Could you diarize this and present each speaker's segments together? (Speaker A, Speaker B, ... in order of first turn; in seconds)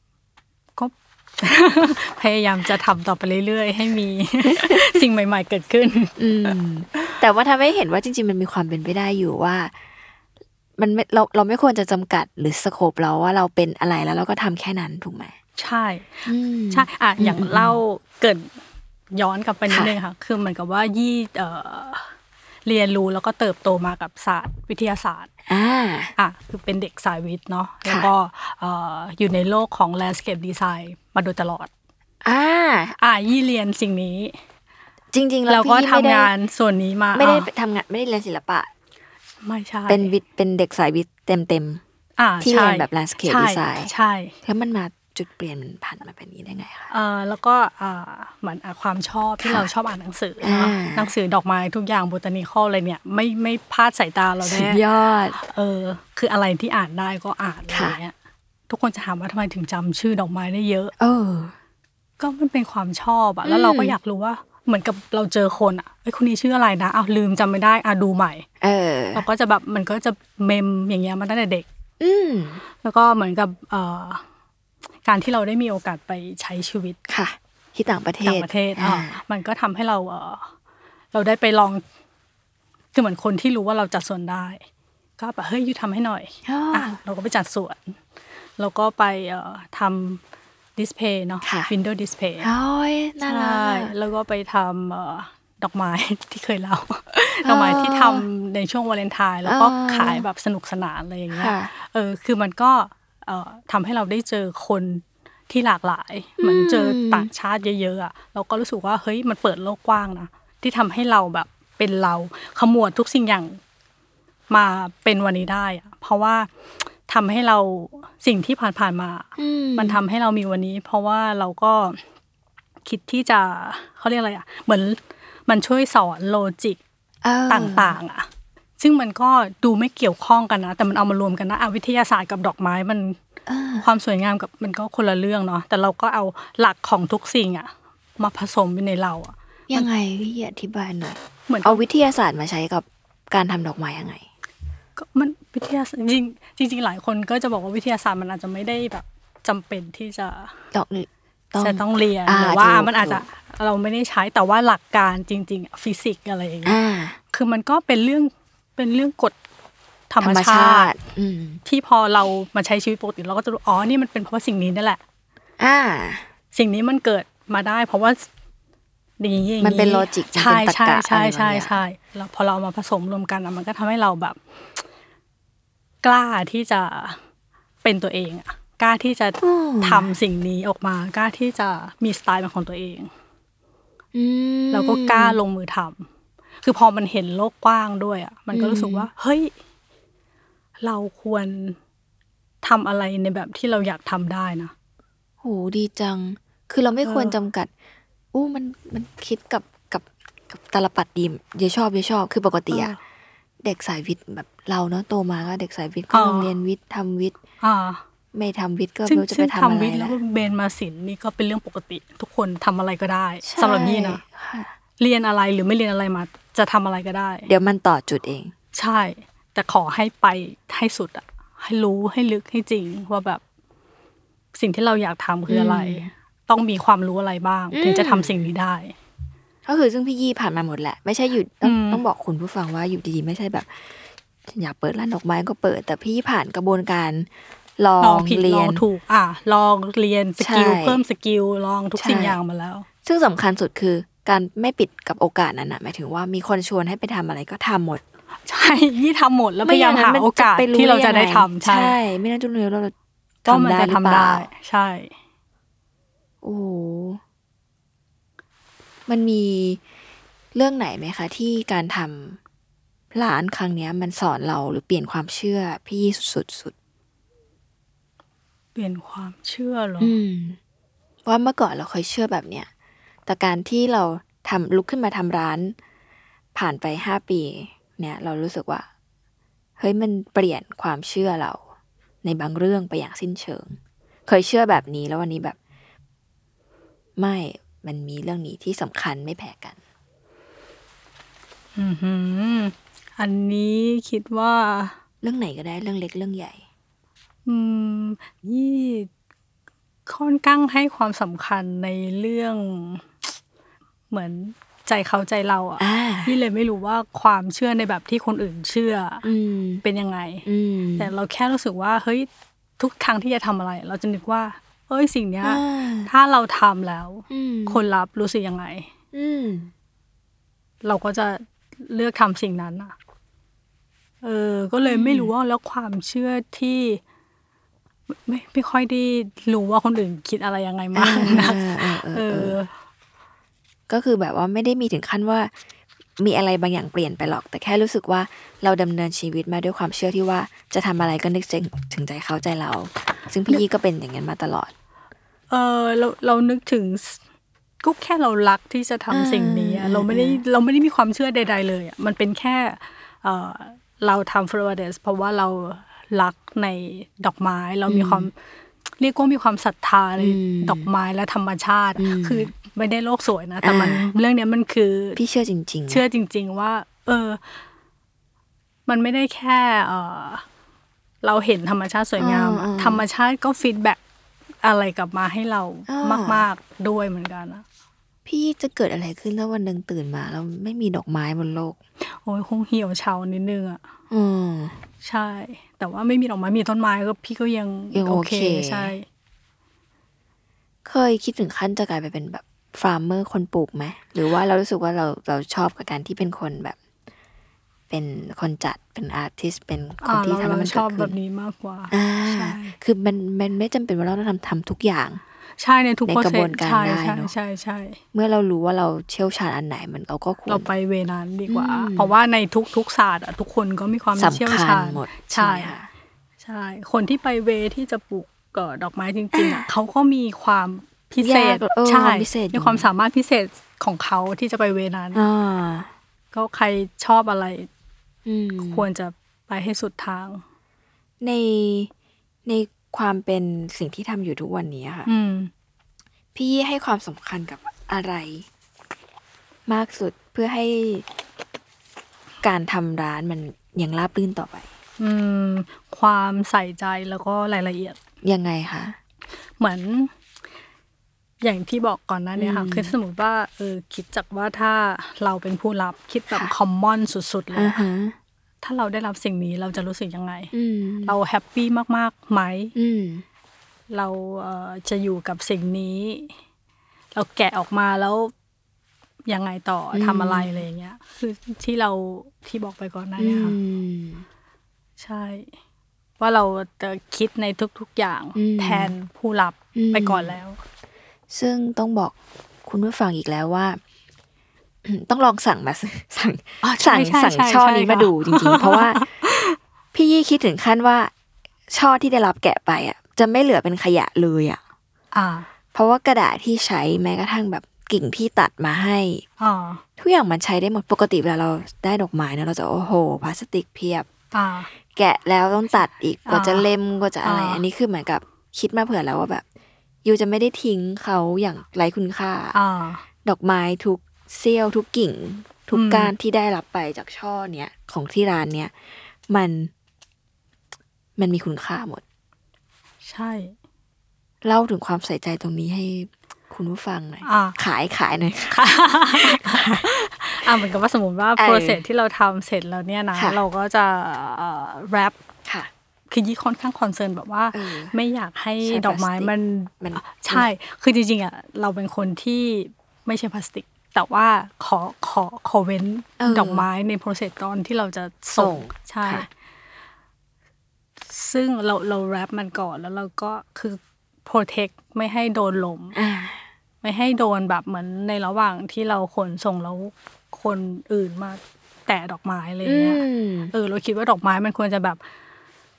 Speaker A: 0.8-7.2, 15.6-18.5, 19.1-22.1, 22.6-25.3, 26.2-31.7, 33.0-34.3, 35.5-37.5, 39.4-40.1, 42.2-44.4, 46.9-54.8, 55.3-58.1, 58.7-60.9, 62.2-68.5, 69.1-71.7, 72.8-74.2, 75.0-77.0, 78.2-80.5, 81.1-81.8, 82.9-84.6, 85.2-88.0, 88.6-90.2, 90.8-92.5, 93.2-113.6, 114.5-116.5, 117.1-122.0, 122.8-126.8, 127.5-128.3, 128.8-133.2, 133.8-139.9, 141.5-141.8, 145.0-150.5, 151.6-156.8, 157.3-159.3, 160.1-160.9, 161.6-165.0, 166.5-168.3, 169.2-174.4, 176.0-177.2, 177.8-183.1, 184.7-186.1, 186.6-189.5, 190.8-191.8, 192.6-194.7, 197.0-197.3, 202.7-203.0, 206.1-206.5, 207.6-208.0, 209.1-214.2, 215.0-217.5, 218.7-223.4, 224.5-228.9, 231.6-232.0, 238.0-242.8, 248.4-251.9, 253.5-255.1, 268.7-270.1, 291.8-294.9, 297.5-299.1, 300.1-303.3, 304.1-309.2, 309.8-310.4, 311.0-318.9, 320.8-322.9, 324.2-327.0, 328.2-332.7, 345.5-347.2, 347.8-358.3, 359.0-365.2, 365.9-367.4, 368.9-370.4, 371.2-374.0, 374.6-377.6, 382.0-383.8, 385.0-389.0, 400.0-402.8, 405.6-408.0, 410.5-415.7, 416.4-425.2, 426.3-427.7, 428.6-430.4, 435.1-435.5, 445.0-448.0, 449.6-450.1, 451.4-457.8, 458.6-460.5, 461.0-462.7, 463.9-466.3, 467.1-468.3, 469.3-473.6, 475.0-475.5, 476.2-480.6, 486.6-489.6, 495.1-495.5, 499.4-499.8, 504.3-504.7, 506.3-506.6, 507.2-507.6, 512.5-513.0, 515.7-516.1, 523.0-523.5, 527.2-527.6, 528.5-535.2, 536.1-549.3, 551.0-556.0, 556.8-565.0
Speaker B: 4.5-5.0, 6.2-9.8, 10.8-15.3, 16.2-17.8, 25.5-26.1, 32.2-33.0, 35.1-36.3, 37.1-38.7, 39.9-41.8, 42.4-43.9, 44.4-46.9, 49.4-49.7, 50.4-51.1, 54.4-55.4, 57.7-58.0, 61.0-61.5, 63.4-64.0, 68.6-69.2, 72.0-72.6, 77.1-79.2, 86.4-87.0, 91.4-91.7, 92.4-93.9, 97.4-98.2, 99.4-100.2, 101.3-101.7, 106.4-107.3, 119.3-120.0, 127.2-128.0, 133.4-133.9, 139.7-144.3, 150.7-153.2, 156.6-157.2, 160.2-161.6, 165.6-166.2, 169.6-171.7, 179.4-180.1, 184.1-185.4, 188.5-189.1, 195.4-197.7, 198.3-202.9, 203.6-207.4, 208.3-210.2, 213.4-214.7, 217.5-218.5, 225.5-226.1, 227.7-228.3, 229.7-238.8, 240.4-241.0, 242.0-242.4, 243.0-248.0, 249.6-254.5, 256.4-257.2, 259.1-259.8, 260.5-262.4, 263.1-266.7, 270.0-270.6, 271.2-272.7, 273.2-275.8, 276.5-278.9, 279.8-281.6, 282.2-285.6, 287.2-289.8, 295.2-296.6, 305.8-306.4, 309.2-309.8, 310.4-311.1, 315.4-316.1, 317.3-317.8, 319.1-319.7, 324.8-325.3, 330.9-332.6, 333.9-335.5, 336.2-344.7, 349.1-350.4, 357.9-358.3, 360.2-360.9, 362.0-362.5, 363.6-364.1, 365.1-366.0, 372.2-373.0, 375.9-376.4, 378.2-381.8, 384.1-384.8, 387.9-388.9, 390.8-396.8, 397.9-401.1, 401.9-405.2, 406.1-407.3, 408.1-410.7, 411.5-412.1, 414.2-415.9, 419.3-419.7, 421.2-422.9, 425.1-425.9, 428.2-428.9, 431.2-431.9, 432.4-435.1, 436.3-438.5, 439.7-441.1, 442.4-444.7, 448.2-449.0, 452.4-452.9, 457.5-458.1, 460.5-461.2, 462.7-463.2, 469.9-470.5, 473.2-474.2, 478.4-478.9, 479.7-480.4, 481.3-482.1, 482.6-483.8, 484.8-489.1, 489.9-491.1, 491.7-494.6, 495.7-499.2, 500.0-504.1, 504.9-509.4, 510.0-512.5, 513.2-519.7, 521.2-522.0, 524.4-529.9, 531.4-531.8, 533.1-533.4, 535.4-535.7, 537.5-537.9, 538.6-540.5, 546.2-546.7, 548.4-549.3, 555.9-556.5, 562.6-563.5